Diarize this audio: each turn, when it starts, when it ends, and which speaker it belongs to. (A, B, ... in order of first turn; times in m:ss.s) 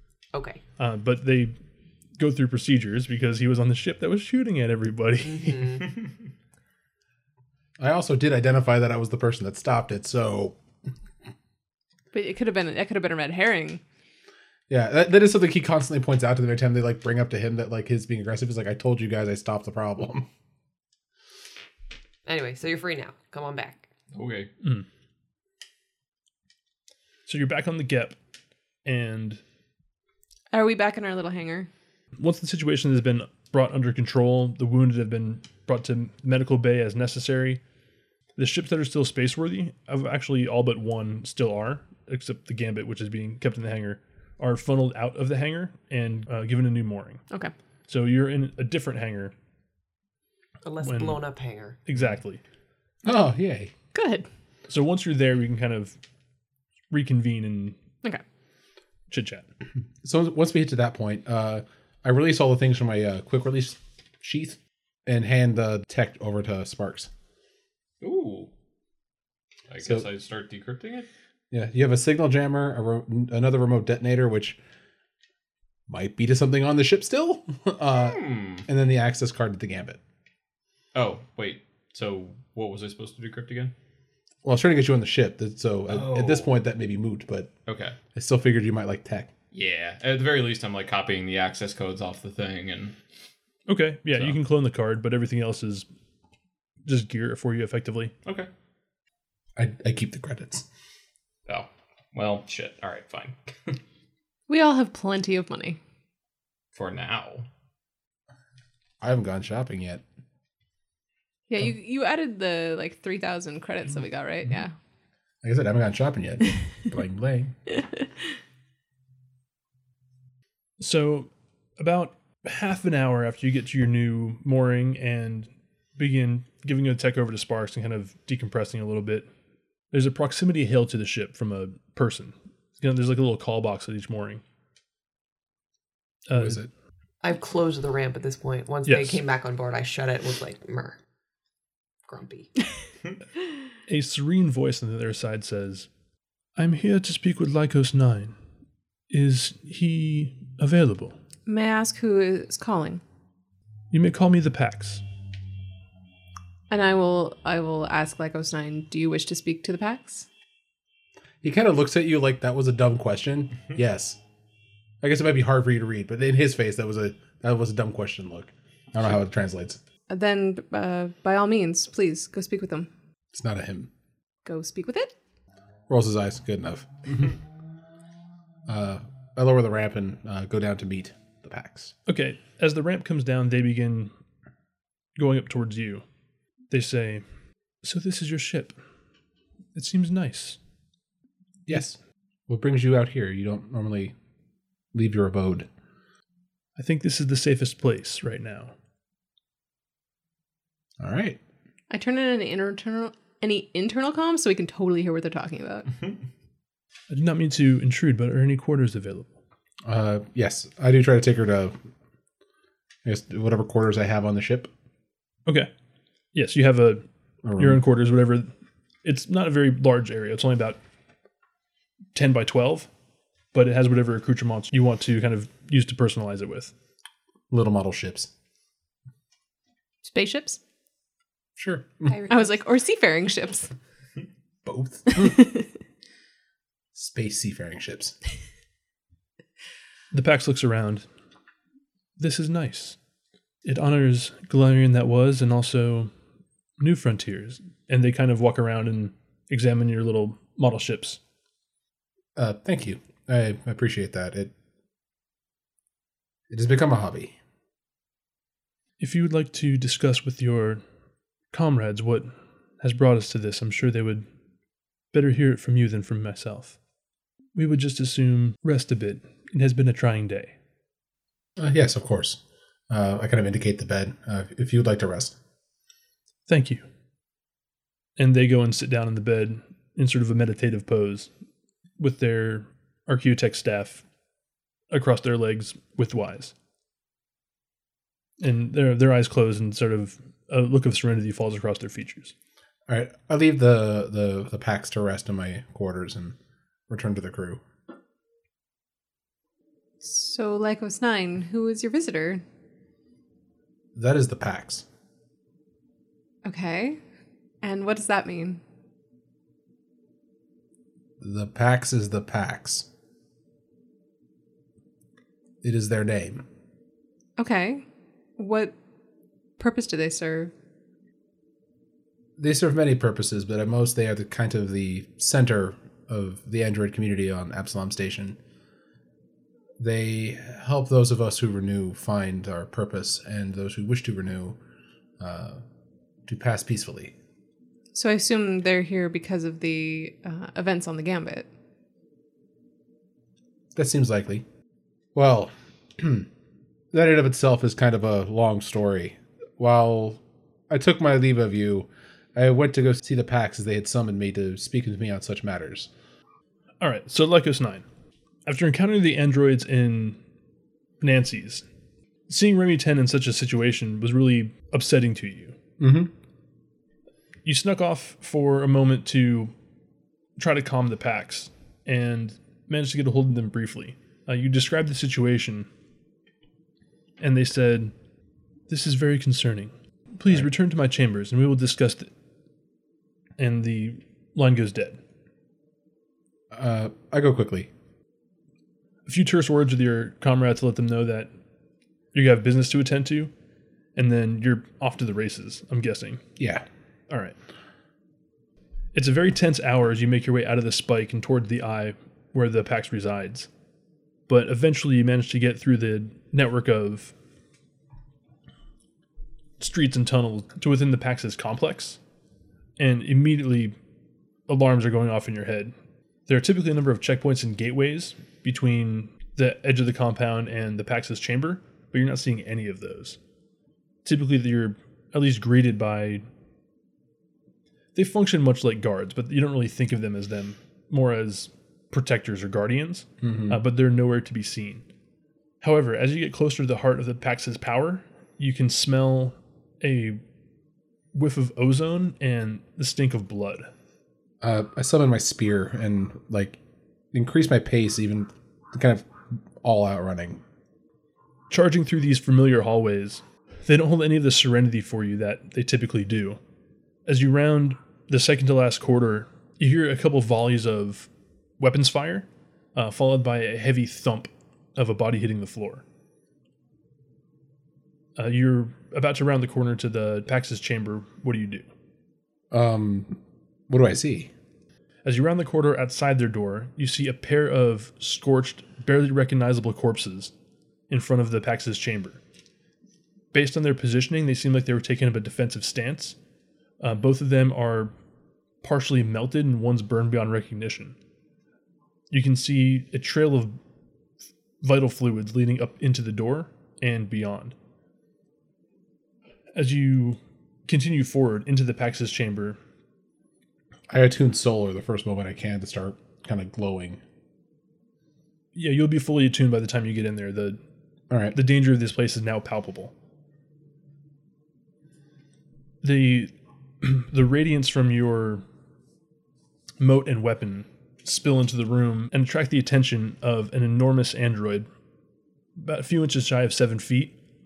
0:00.3-0:00.6 A
0:00.8-0:01.5 B
0:02.2-0:05.8 B
0:05.2-0:06.0 A
0:07.8-0:10.6 C
0:12.1-0:13.8 D
0:14.7-0:20.3 C
0:22.2-0:23.9 A
0:24.1-0:24.5 E
0:27.2-0:28.2 B
0:28.8-0:29.4 B
0:30.5-0:31.7 D
0:32.2-0:37.6 B
0:38.4-0:47.2 B
0:47.9-0:49.3 B
0:50.6-0:51.8 A
0:50.8-0:51.2 B
0:51.8-0:52.4 B
0:53.0-0:53.7 C
0:53.9-0:54.3 D
0:54.7-0:56.0 B
0:56.9-0:57.8 B
0:59.1-0:59.4 B
1:00.0-1:07.1 C
1:08.0-1:08.5 E
1:09.7-1:11.1 E
1:11.5-1:14.6 C
1:15.9-1:20.0 C
1:17.9-1:18.6 E
1:20.9-1:23.7 E
1:24.4-1:27.5 C
1:25.9-1:26.5 E
1:27.7-1:28.0 E
1:28.1-1:29.3 C
1:29.5-1:32.9 E
1:33.7-1:35.8 B
1:36.8-1:38.1 B
1:39.6-1:40.6 C
1:41.5-1:43.8 E
1:44.5-1:45.8 D
1:46.7-1:47.5 E
1:49.0-1:50.0 C
1:51.5-1:54.7 D
1:55.4-1:57.5 C
2:00.8-2:09.3 B
2:09.9-2:14.4 B
2:16.3-2:16.6 B
2:16.3-2:16.7 C
2:17.2-2:21.0 A
2:18.8-2:19.2 B
2:22.1-2:22.5 A
2:23.9-2:25.9 B
2:26.6-2:28.3 B
2:29.1-2:31.1 B
2:31.5-2:33.0 D
2:33.9-2:35.0 B
2:36.7-2:40.3 D
2:41.4-2:44.2 C
2:45.0-2:49.8 C
2:50.1-2:52.9 D
2:53.3-2:53.9 C
2:54.4-2:55.1 D
2:55.9-2:57.3 C
2:58.7-3:01.9 C
3:02.1-3:04.1 B
3:05.2-3:06.0 B
3:06.7-3:07.2 B
3:07.8-3:08.8 B
3:09.7-3:10.6 B
3:11.7-3:12.0 C
3:12.5-3:14.1 C
3:14.9-3:15.7 C
3:16.8-3:18.7 B
3:21.0-3:21.4 C
3:21.9-3:25.9 D
3:27.1-3:29.3 B
3:29.8-3:31.8 C
3:33.0-3:34.7 C
3:36.3-3:37.0 B
3:37.4-3:37.8 C
3:37.6-3:38.5 B
3:39.0-3:40.8 B
3:42.1-3:42.9 B
3:43.5-3:46.7 B
3:47.5-3:48.3 C
3:50.0-3:50.6 D
3:51.6-3:52.1 C
3:52.1-3:52.6 A
3:52.3-3:53.7 D
3:54.6-3:55.5 C
3:56.9-3:58.2 C
4:00.1-4:01.0 B
4:02.2-4:03.0 B
4:03.6-4:06.1 B
4:06.8-4:11.2 B
4:12.4-4:14.5 C
4:16.5-4:17.3 C
4:19.0-4:20.8 B
4:21.5-4:24.2 B
4:25.1-4:26.8 B
4:27.5-4:30.5 B
4:31.6-4:35.4 C
4:36.5-4:36.8 B
4:38.2-4:41.3 B
4:42.0-4:44.0 B
4:44.9-4:46.5 B
4:48.4-4:52.3 B
4:52.9-4:56.4 C
4:56.9-4:57.6 C
5:00.0-5:02.4 D
5:03.9-5:04.8 C
5:06.4-5:07.0 D
5:07.6-5:08.6 D
5:11.2-5:12.9 C
5:15.6-5:16.4 C
5:17.4-5:17.8 D
5:18.4-5:18.7 D
5:19.6-5:20.5 D
5:22.4-5:28.4 C
5:29.8-5:34.6 C
5:35.2-5:35.6 C
5:36.3-5:37.1 C
5:37.9-5:41.5 D
5:43.7-5:44.4 C
5:45.1-5:46.3 C
5:46.9-5:55.9 C
5:56.8-5:57.8 B
5:58.4-6:00.2 B
6:01.0-6:01.6 B
6:02.3-6:05.5 B
6:05.8-6:06.1 C
6:07.4-6:09.5 B
6:10.4-6:15.7 B
6:17.2-6:17.9 B
6:18.7-6:22.1 B
6:23.4-6:25.0 B
6:26.5-6:27.7 C
6:29.0-6:31.3 B
6:32.1-6:33.3 B
6:34.0-6:36.2 B
6:36.4-6:36.6 C
6:37.1-6:37.4 B
6:38.9-6:43.5 B
6:44.3-6:47.1 B
6:49.6-6:52.0 B
6:52.8-6:53.8 B
6:54.5-6:55.7 B
6:56.3-7:03.2 B
7:04.0-7:06.2 B
7:07.9-7:14.8 B
7:13.2-7:13.6 C
7:15.6-7:20.2 B
7:21.1-7:23.7 B
7:24.4-7:26.6 C
7:27.1-7:29.1 C
7:29.6-7:30.4 C
7:31.5-7:36.4 B
7:37.0-7:41.1 B
7:41.6-7:45.8 B
7:48.2-7:51.7 B
7:52.5-7:54.3 C
7:55.0-8:00.3 B
8:00.9-8:02.2 B
8:03.3-8:06.2 B
8:06.8-8:07.9 B
8:08.6-8:10.9 B
8:12.1-8:13.6 B
8:14.6-8:17.5 B
8:19.5-8:22.6 B
8:23.9-8:27.0 C
8:28.5-8:30.6 B
8:31.1-8:31.4 C
8:31.3-8:32.9 B
8:35.8-8:38.4 B
8:39.8-8:44.7 B
8:45.6-8:47.1 B